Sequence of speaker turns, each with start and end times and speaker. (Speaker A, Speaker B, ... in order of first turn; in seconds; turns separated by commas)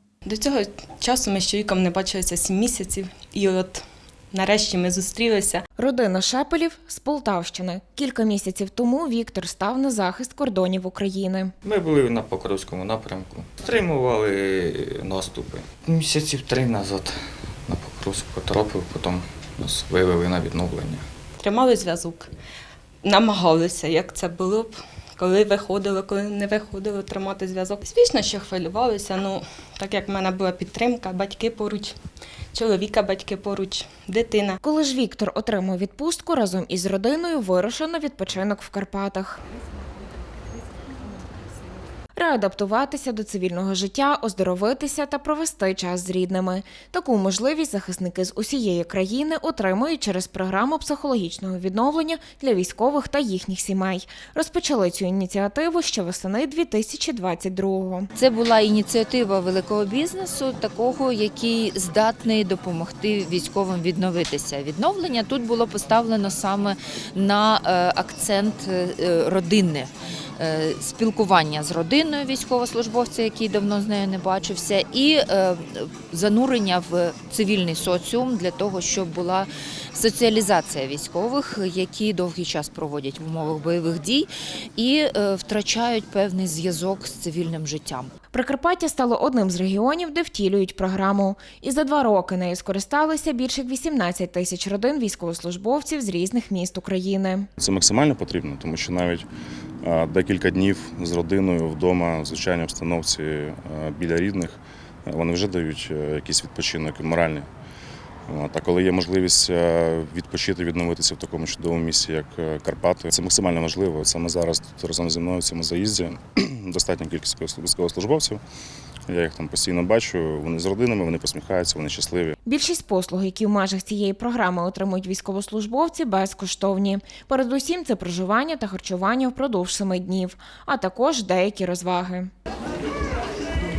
Speaker A: 0.3-5.6, Speaker B: 5.8-11.5, Speaker C: 11.6-21.1, Speaker A: 21.4-22.3, Speaker A: 23.0-31.9, Speaker A: 32.5-34.6, Speaker B: 34.6-39.4, Speaker B: 42.2-58.1, Speaker D: 58.2-88.1, Speaker B: 88.3-97.5, Speaker E: 97.6-99.3, Speaker E: 99.8-107.5, Speaker E: 108.3-118.4, Speaker E: 119.1-122.3, Speaker B: 122.4-132.3